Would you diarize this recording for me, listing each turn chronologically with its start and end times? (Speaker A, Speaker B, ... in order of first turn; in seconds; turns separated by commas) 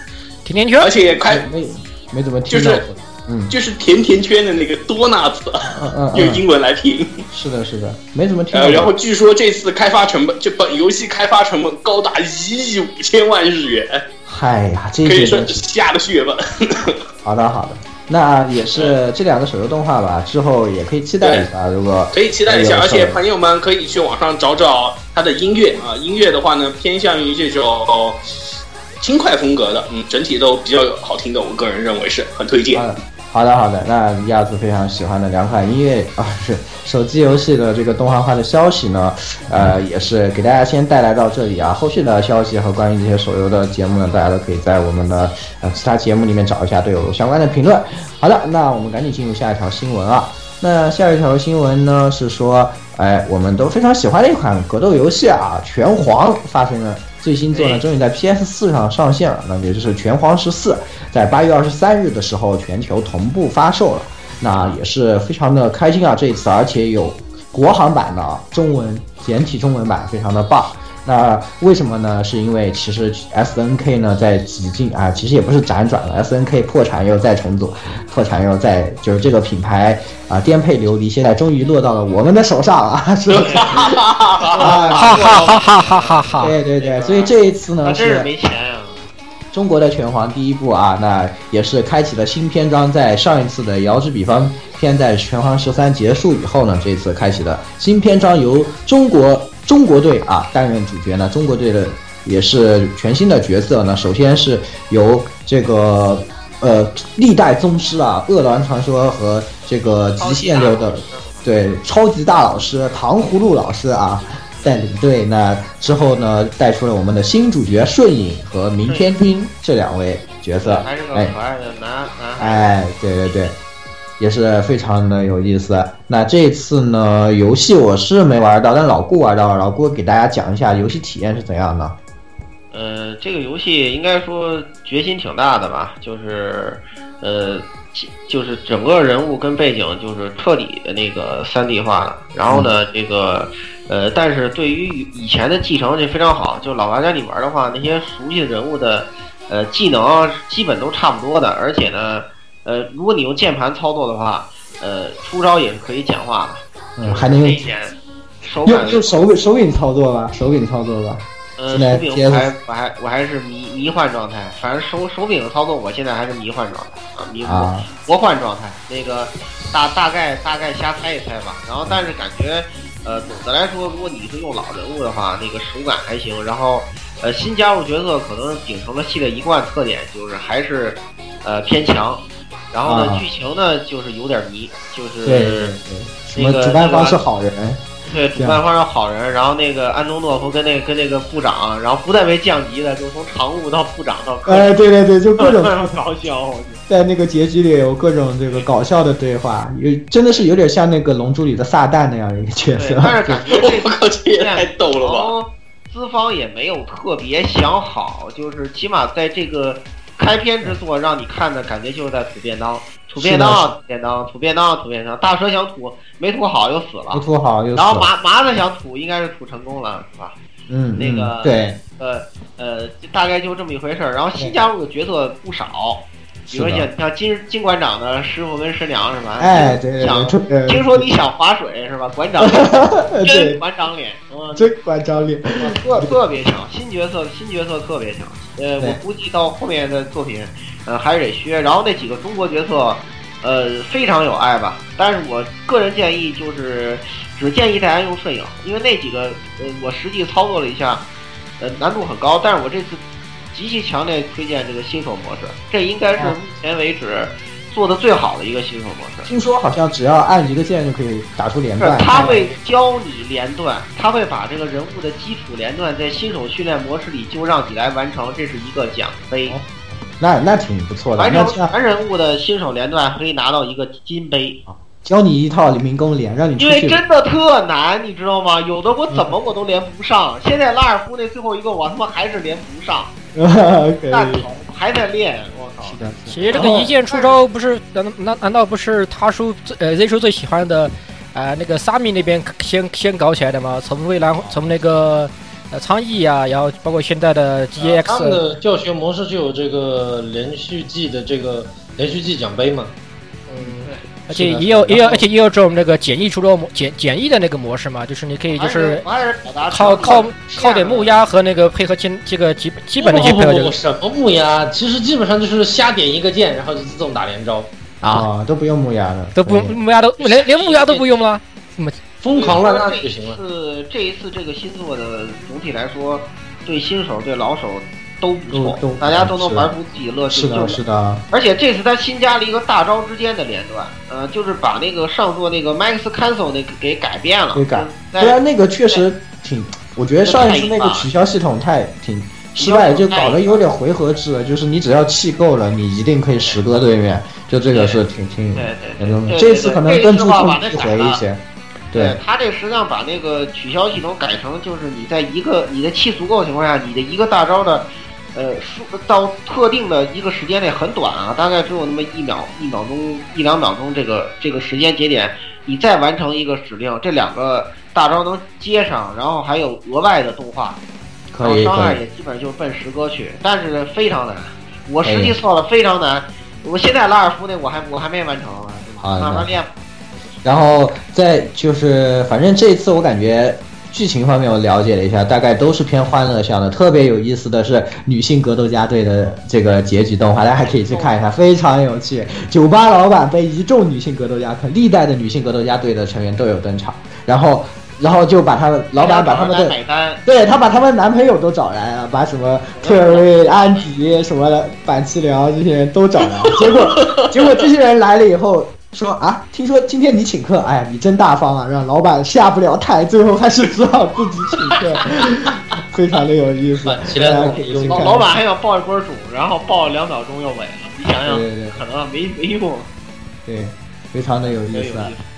Speaker A: 0.4-0.9, Speaker B: 0.8-1.4, Speaker C: 1.2-3.5, Speaker B: 2.5-2.8, Speaker B: 3.5-7.2, Speaker C: 5.7-6.4, Speaker C: 7.3-8.9, Speaker B: 8.5-14.0, Speaker C: 14.2-15.6, Speaker B: 15.0-17.0, Speaker C: 17.2-23.2, Speaker B: 21.2-21.5, Speaker B: 22.1-28.2, Speaker B: 29.0-32.9, Speaker C: 32.7-84.0, Speaker B: 83.3-84.8, Speaker D: 83.4-83.9, Speaker D: 84.4-89.1, Speaker C: 84.5-85.5, Speaker A: 84.9-86.5, Speaker C: 86.4-88.3, Speaker C: 89.5-121.3, Speaker D: 110.2-111.5, Speaker D: 120.6-122.7, Speaker C: 122.4-123.6, Speaker C: 124.2-132.0, Speaker D: 132.7-159.2, Speaker C: 157.0-157.6, Speaker C: 158.6-162.5, Speaker D: 161.6-185.7, Speaker C: 167.4-167.9, Speaker C: 182.8-183.2, Speaker C: 185.2-188.6, Speaker D: 186.3-187.2, Speaker D: 188.1-194.7, Speaker C: 194.4-195.9, Speaker D: 195.4-196.8, Speaker C: 196.9-203.5, Speaker D: 202.8-220.3, Speaker B: 203.6-205.3, Speaker C: 213.2-213.7, Speaker C: 217.1-218.1, Speaker C: 220.7-221.8, Speaker D: 220.9-234.7, Speaker C: 226.5-226.9, Speaker C: 229.4-231.0, Speaker C: 232.4-233.6, Speaker C: 234.5-236.2, Speaker D: 235.6-251.1, Speaker D: 251.6-253.0, Speaker D: 253.5-259.3, Speaker C: 259.2-262.5, Speaker D: 261.8-269.6, Speaker A: 262.1-262.5, Speaker C: 269.5-271.7, Speaker D: 271.2-274.6, Speaker C: 274.7-277.0, Speaker D: 276.6-283.1, Speaker C: 283.3-284.4, Speaker D: 284.1-287.4, Speaker C: 285.8-286.9, Speaker A: 286.3-298.4, Speaker E: 297.8-302.9, Speaker A: 303.5-309.0, Speaker C: 304.3-305.2, Speaker D: 308.5-311.1, Speaker A: 309.7-313.7, Speaker E: 313.0-317.7, Speaker C: 318.0-319.8, Speaker A: 319.4-322.0, Speaker E: 320.2-321.0, Speaker E: 322.2-323.4, Speaker D: 322.3-330.8, Speaker C: 328.5-329.7, Speaker C: 330.3-331.2, Speaker D: 331.3-338.4, Speaker C: 337.5-352.2, Speaker D: 340.2-341.1, Speaker D: 342.6-343.6, Speaker D: 346.4-346.6, Speaker D: 347.7-348.0, Speaker D: 348.5-351.2, Speaker D: 351.9-370.8, Speaker C: 371.3-372.0, Speaker D: 371.4-379.7, Speaker C: 375.0-375.4, Speaker C: 379.0-379.5, Speaker C: 380.4-399.7, Speaker D: 390.6-391.3, Speaker D: 398.9-400.2, Speaker C: 400.2-418.4, Speaker D: 402.7-403.9, Speaker E: 416.8-418.3, Speaker D: 417.3-422.9, Speaker C: 421.2-421.8, Speaker C: 423.4-425.1, Speaker D: 424.7-425.2